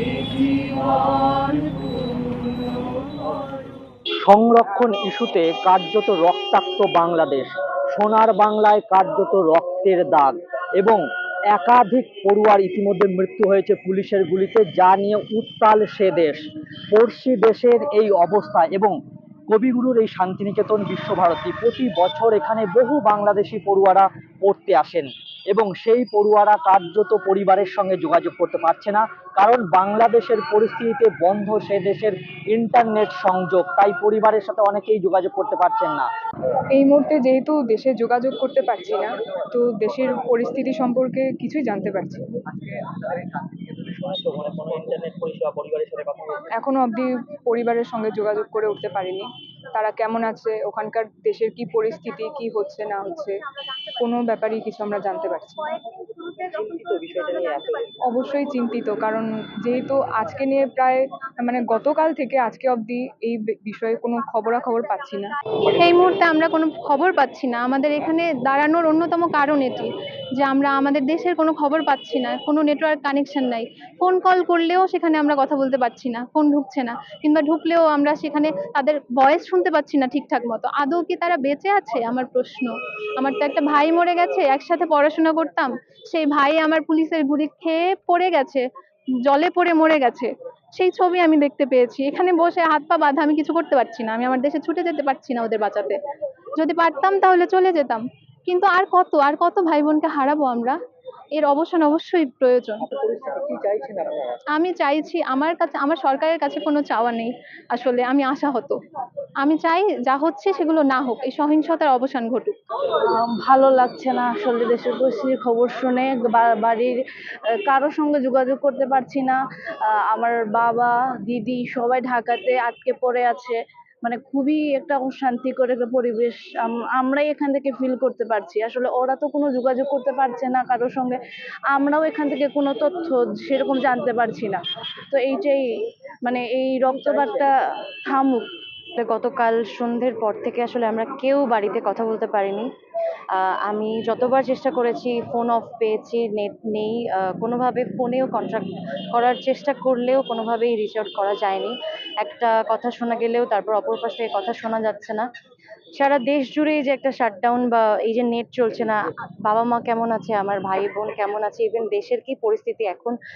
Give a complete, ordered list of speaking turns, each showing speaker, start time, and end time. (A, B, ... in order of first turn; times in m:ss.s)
0:04.2-0:16.4 A
0:16.9-0:19.0 A
0:19.5-0:36.1 A
0:36.7-0:42.3 B
0:42.5-0:46.5 A
0:46.6-0:53.4 B
0:53.9-0:55.8 B
0:56.3-0:57.9 A
0:58.1-1:05.3 B
1:05.7-1:28.6 C
1:29.3-1:36.0 C
1:36.6-1:40.8 C
1:41.4-1:42.8 C
1:42.9-1:44.3 A
1:44.5-1:48.8 C
1:49.4-1:52.6 C
1:53.1-1:57.0 D
1:57.7-2:11.2 D
2:11.7-2:15.6 D
2:16.2-2:17.6 D
2:17.0-2:17.5 A
2:18.1-2:18.5 D
2:19.0-2:22.7 E
2:23.3-2:35.3 E
2:36.0-2:43.2 E